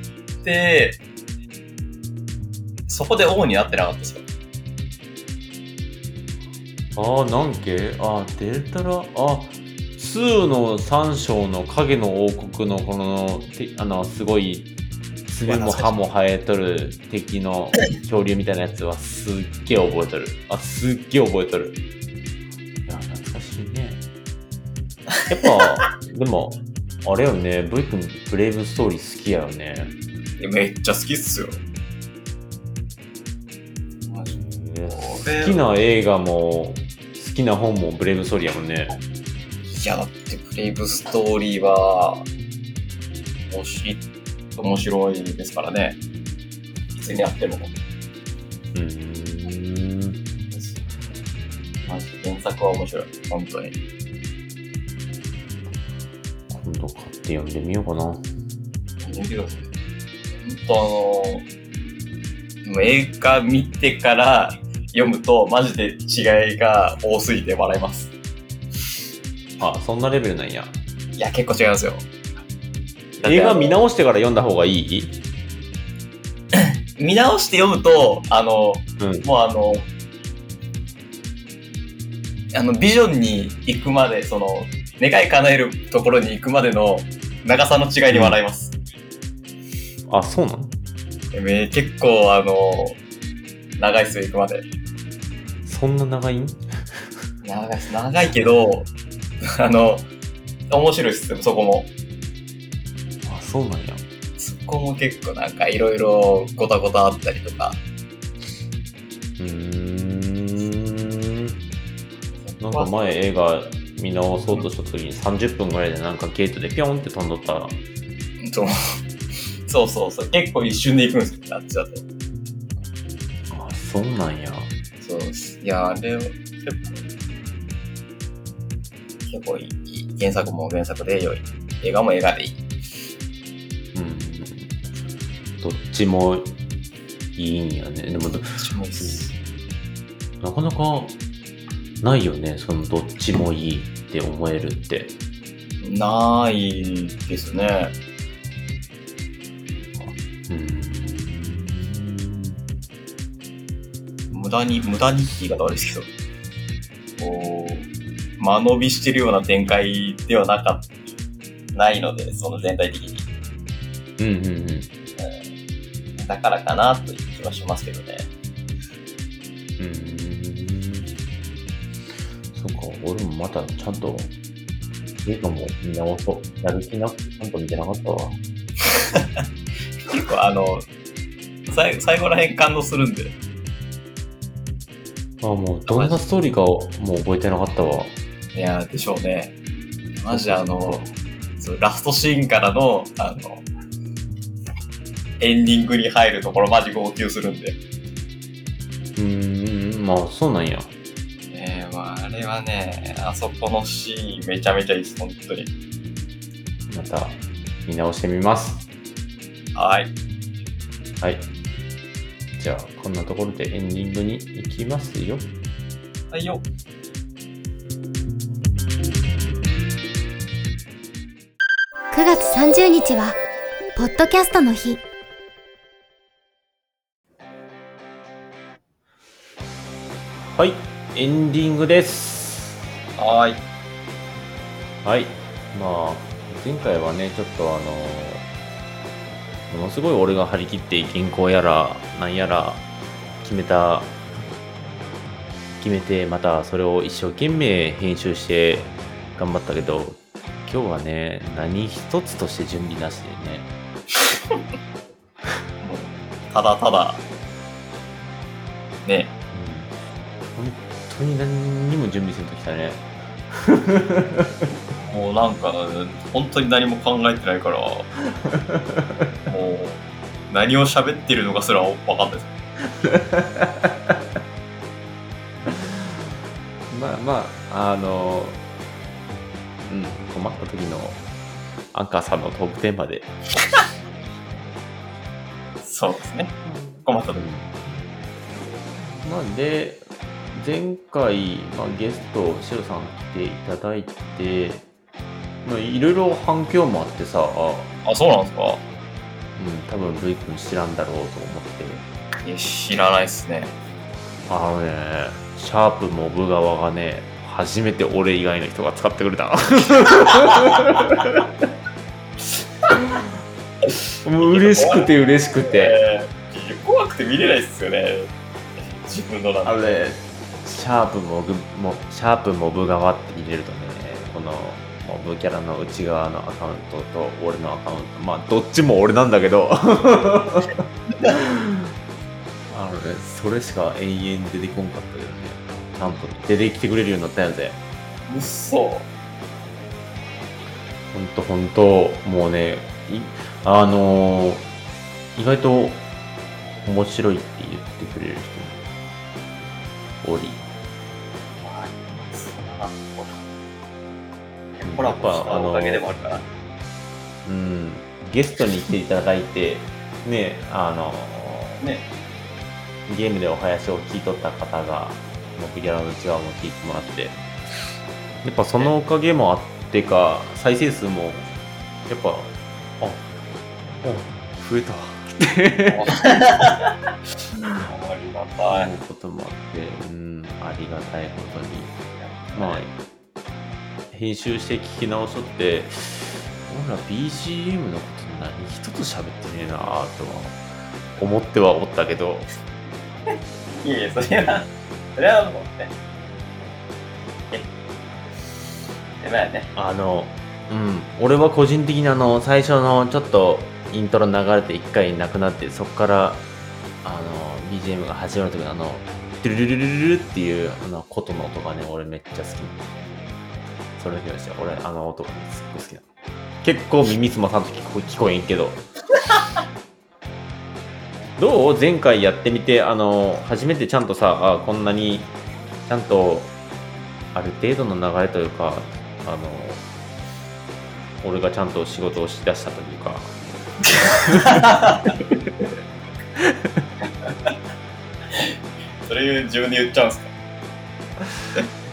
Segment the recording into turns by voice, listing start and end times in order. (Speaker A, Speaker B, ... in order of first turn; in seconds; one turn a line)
Speaker A: 0.4-1.0
Speaker A: 2.9-4.2
Speaker B: 7.0-14.7
Speaker B: 15.3-21.8
Speaker A: 15.5-15.9
Speaker B: 22.9-24.0
Speaker B: 25.3-29.9
Speaker A: 30.4-31.6
Speaker A: 34.0-35.6
Speaker B: 34.3-39.0
Speaker A: 39.7-42.3
Speaker A: 43.5-44.0
Speaker A: 44.6-46.0
Speaker A: 47.0-47.7
Speaker B: 48.7-50.2
Speaker A: 50.5-50.8
Speaker A: 51.8-53.8
Speaker B: 56.5-58.3
Speaker A: 59.0-59.7
Speaker A: 60.4-61.5
Speaker A: 62.6-68.1
Speaker B: 69.6-70.8
Speaker A: 71.2-72.1
Speaker A: 73.2-73.8
Speaker B: 73.2-75.2
Speaker A: 76.5-79.9
Speaker B: 79.0-79.3
Speaker A: 82.5-88.8
Speaker B: 88.1-88.4
Speaker B: 90.1-90.7
Speaker A: 91.3-93.0
Speaker A: 93.8-94.7
Speaker B: 95.7-97.1
Speaker A: 97.4-98.9
Speaker A: 99.4-100.1
Speaker A: 100.7-101.9
Speaker B: 103.2-104.0
Speaker A: 104.4-107.8
Speaker B: 109.4-111.6
Speaker A: 112.5-112.9
Speaker B: 112.6-117.8
Speaker A: 118.4-119.0
Speaker A: 119.7-122.0
Speaker B: 123.5-124.7
Speaker A: 125.0-127.0
Speaker A: 129.3-132.6
Speaker B: 133.9-134.8
Speaker B: 135.6-136.5
Speaker B: 137.4-139.3
Speaker A: 138.5-139.3
Speaker B: 140.4-141.2
Speaker B: 142.0-145.1
Speaker A: 145.8-147.9
Speaker B: 149.8-152.6
Speaker A: 154.3-156.1
Speaker A: 157.2-160.9
Speaker A: 161.7-163.2
Speaker B: 164.2-164.9
Speaker A: 166.2-168.3
Speaker B: 169.8-171.1
Speaker B: 172.5-174.3
Speaker B: 175.2-178.4
Speaker A: 178.9-179.4
Speaker A: 180.1-180.9
Speaker A: 181.7-183.3
Speaker B: 185.4-188.2
Speaker A: 185.9-186.2
Speaker A: 188.5-189.5
Speaker A: 190.1-191.1
Speaker B: 190.3-191.1
Speaker A: 191.6-193.6
Speaker A: 195.4-197.8
Speaker B: 199.2-200.9
Speaker A: 201.5-205.7
Speaker B: 206.9-208.8
Speaker A: 209.8-210.1
Speaker B: 211.2-211.5
Speaker B: 212.6-215.5
Speaker A: 216.3-216.6
Speaker C: 222.1-223.4
Speaker C: 224.0-225.0
Speaker B: 230.5-232.8
Speaker A: 233.2-233.6
Speaker B: 235.0-238.5
Speaker B: 239.7-242.8
Speaker B: 243.4-244.1
Speaker B: 245.8-253.7
Speaker A: 255.8-257.2
Speaker A: 259.1-259.3
Speaker B: 259.5-259.9
Speaker B: 260.6-264.7
Speaker A: 265.0-268.1
Speaker B: 268.2-269.3
Speaker A: 269.5-270.0
Speaker A: 270.5-272.5
Speaker B: 273.0-274.2
Speaker B: 275.7-276.2
Speaker B: 276.9-278.6
Speaker B: 279.8-281.2
Speaker B: 281.9-283.3
Speaker A: 285.8-287.5
Speaker B: 286.6-288.1
Speaker B: 289.2-294.9
Speaker B: 295.6-297.9
Speaker A: 298.1-298.8
Speaker B: 299.6-302.1
Speaker A: 302.4-303.8
Speaker B: 304.5-311.3
Speaker B: 314.2-316.0
Speaker A: 314.4-315.1
Speaker A: 315.7-318.3
Speaker A: 319.0-320.0
Speaker B: 319.6-331.9
Speaker B: 332.7-337.8
Speaker A: 338.3-339.1
Speaker B: 341.1-344.7
Speaker B: 345.4-346.1
Speaker B: 346.9-348.9
Speaker B: 350.2-350.6
Speaker A: 351.6-353.4
Speaker A: 354.8-356.4
Speaker B: 354.8-356.1
Speaker B: 357.4-361.8
Speaker A: 361.8-362.1
Speaker B: 363.1-367.4
Speaker B: 368.4-371.5
Speaker B: 372.1-373.2
Speaker B: 374.0-376.2
Speaker A: 375.9-376.9
Speaker A: 377.6-378.9
Speaker B: 378.7-381.9
Speaker A: 382.2-382.8
Speaker B: 382.5-382.9
Speaker B: 384.1-390.6
Speaker B: 391.2-392.5
Speaker A: 393.8-395.9
Speaker A: 399.2-399.7
Speaker B: 399.8-406.4
Speaker B: 407.0-412.9
Speaker B: 414.0-416.1
Speaker B: 416.6-418.8
Speaker B: 421.4-425.3
Speaker B: 425.9-426.5
Speaker B: 427.3-429.9
Speaker B: 431.2-433.3
Speaker B: 434.3-434.6
Speaker A: 434.3-435.1
Speaker B: 436.4-436.8
Speaker A: 437.2-437.5
Speaker A: 439.1-440.3